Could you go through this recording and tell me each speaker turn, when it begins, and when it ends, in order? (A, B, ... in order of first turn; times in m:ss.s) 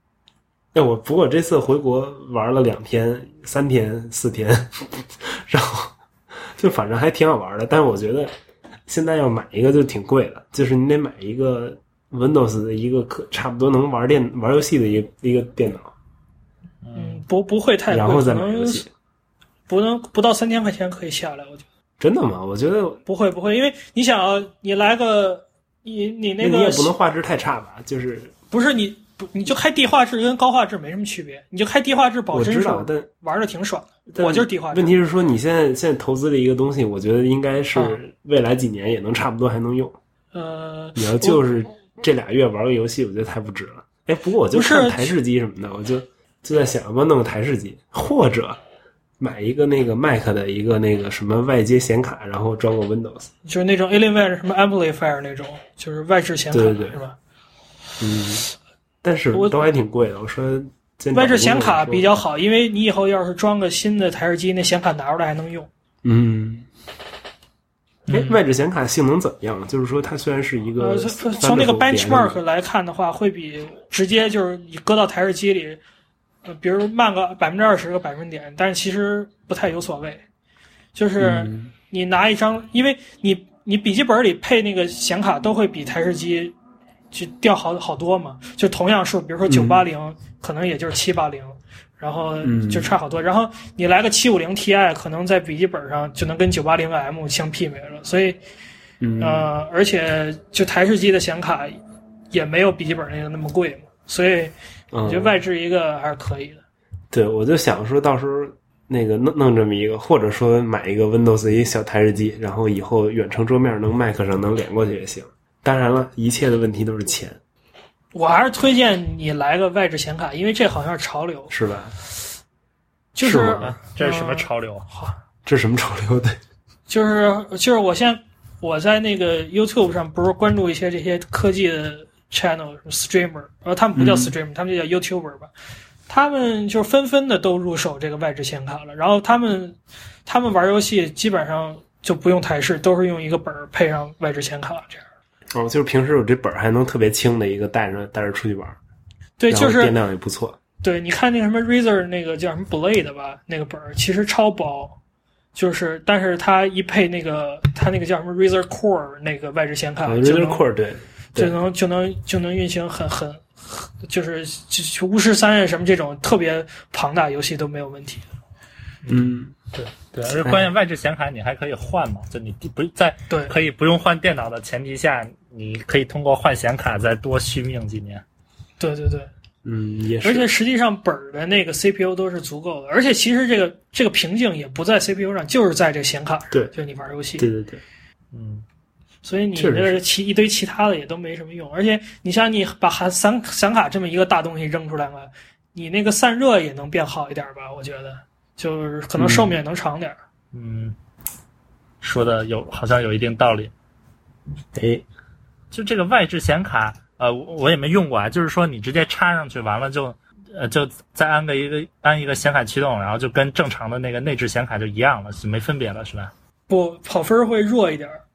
0:00.7-0:05.9 A
0:06.6-0:08.3 A
0:08.9-0:15.9 A
0:16.8-0:17.2 B
0:17.0-0:18.9 C
0:17.9-0:18.9 A
0:19.7-0:21.6 C
0:22.0-0:23.0 A
0:23.1-0:26.9 C
0:26.4-0:28.3 A
0:28.5-0:34.9 C
0:32.3-0:33.1 A
0:34.1-0:40.0 A
0:37.7-0:38.0 C
0:40.3-0:41.4 C
0:41.0-0:48.6 A
0:44.5-0:45.2 C
0:49.2-0:53.3 A
0:53.4-0:57.2 C
0:56.5-0:57.0 A
0:58.0-0:58.5 A
0:59.0-1:02.2 A
0:59.3-0:59.6 C
1:01.1-1:05.7 C
1:06.0-1:06.7 A
1:08.1-1:08.4 B
1:08.1-1:12.4 A
1:10.8-1:15.8 C
1:16.4-1:20.2 C
1:21.0-1:26.6 C
1:21.2-1:21.7 A
1:27.1-1:38.4 C
1:29.5-1:29.9 A
1:32.4-1:33.0 A
1:39.0-1:39.5 A
1:39.2-1:41.8 C
1:42.3-1:46.6 C
1:44.9-1:45.4 A
1:47.1-1:57.4 A
1:58.1-2:01.5 C
2:01.5-2:01.9 A
2:03.2-2:05.2 C
2:03.2-2:03.7 A
2:03.6-2:04.8 B
2:05.4-2:06.4 A
2:06.9-2:15.5 C
2:14.0-2:14.4 A
2:16.1-2:25.0 C
2:25.5-2:28.8 A
2:29.4-2:29.9 C
2:29.5-2:30.6 A
2:30.8-2:35.0 C
2:35.6-2:40.6 C
2:40.0-2:41.6 A
2:41.4-2:48.3 C
2:49.0-2:58.2 B
2:49.1-2:49.6 A
2:50.4-2:50.7 A
2:58.8-2:59.3 C
2:59.6-3:00.5 A
3:00.2-3:07.5 C
3:07.4-3:07.8 A
3:08.3-3:08.6 B
3:09.2-3:20.2 C
3:09.6-3:10.0 A
3:19.2-3:19.6 A
3:20.5-3:21.0 B
3:22.0-3:23.7 B
3:24.8-3:25.0 A
3:25.7-3:36.3 B
3:36.7-3:38.2 C